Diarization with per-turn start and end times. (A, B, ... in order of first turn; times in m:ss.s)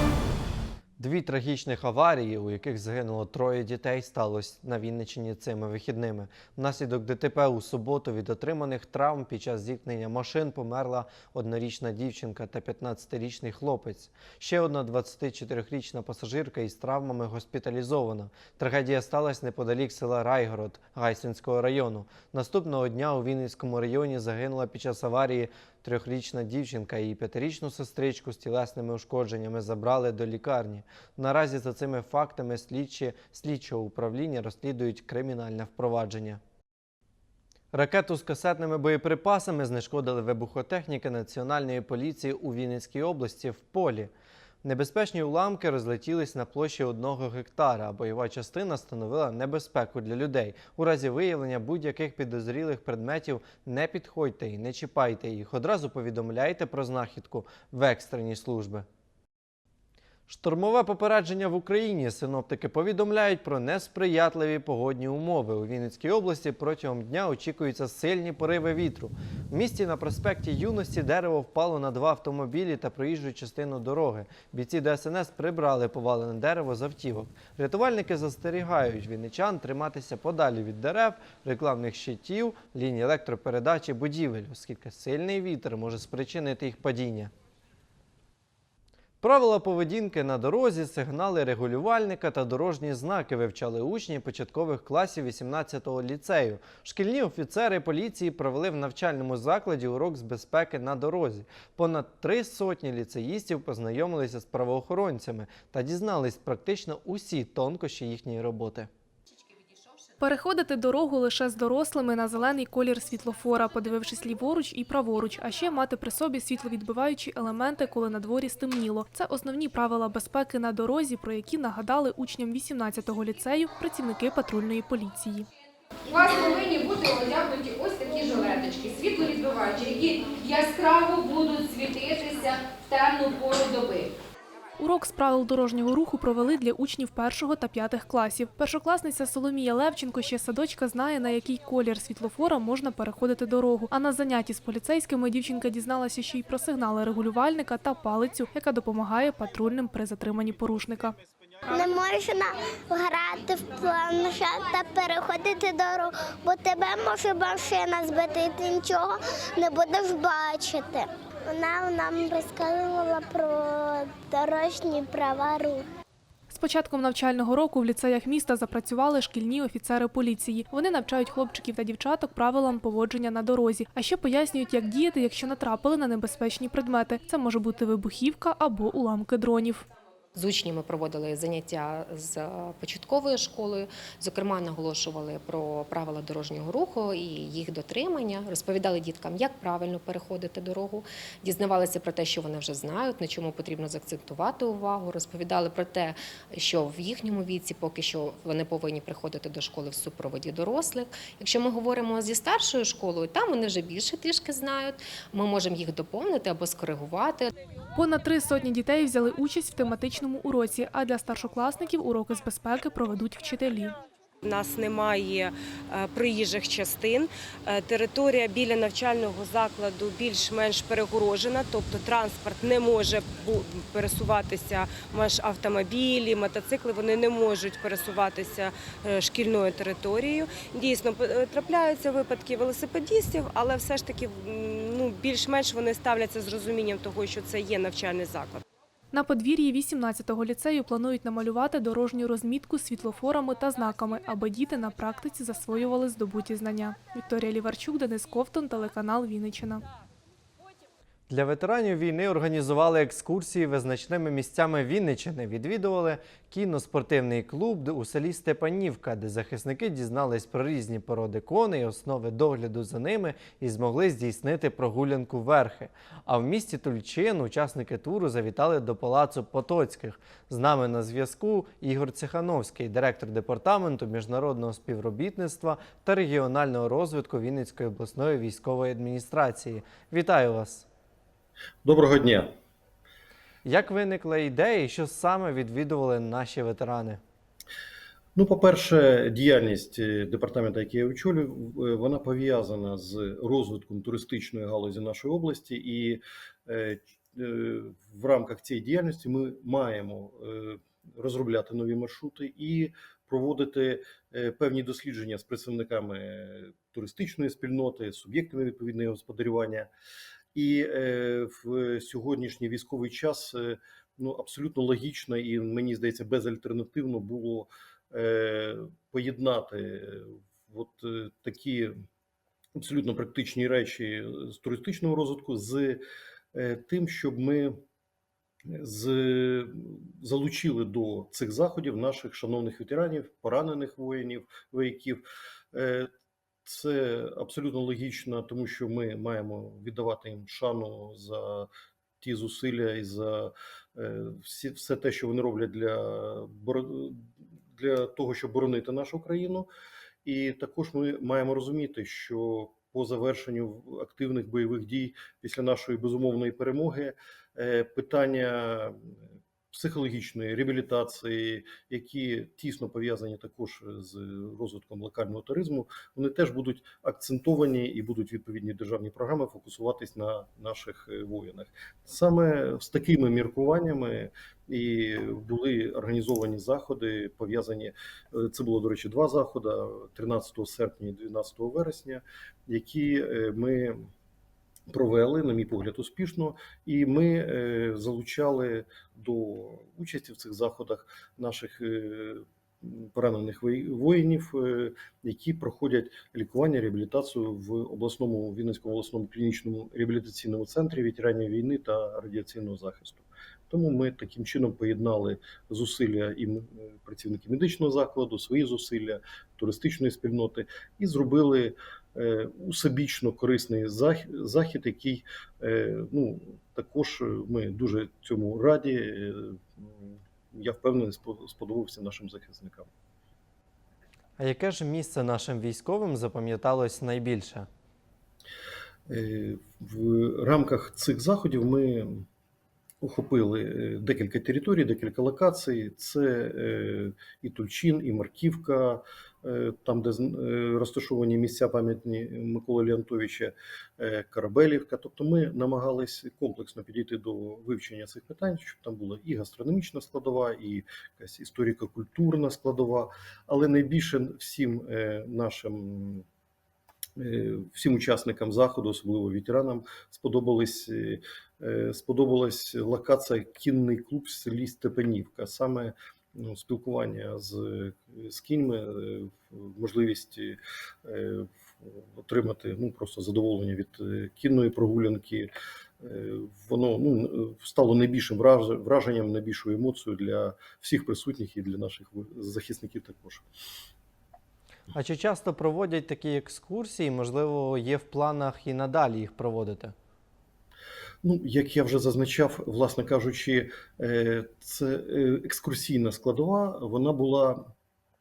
0:01.0-0:36.4 A
0:37.7-0:44.1 A
0:44.6-0:58.9 A
1:00.3-1:27.3 A
1:29.2-1:48.9 A
1:50.2-2:05.5 B
2:06.1-2:14.1 C
2:14.8-2:31.2 B
2:31.7-2:45.8 D
2:46.5-2:59.9 B
3:00.4-3:27.5 E
3:28.0-3:34.0 B
3:34.4-3:58.6 F
3:59.1-4:09.9 B
4:11.3-4:40.9 A
4:41.8-4:42.5 G
4:43.6-4:47.2 A
4:48.4-5:09.9 G
5:10.6-5:22.0 G
5:22.8-5:26.0 G
5:26.5-5:27.8 G
5:28.7-5:36.1 G
5:36.7-5:41.7 G
5:42.2-5:49.7 G
5:50.2-5:59.1 G
5:59.7-6:24.1 G
6:24.9-7:02.9 G
7:04.4-7:07.7 A
7:09.1-7:12.2 G
7:13.0-7:36.2 G
7:37.2-7:55.5 G
7:56.0-8:03.4 G
8:04.9-8:09.9 A
8:11.2-8:17.7 G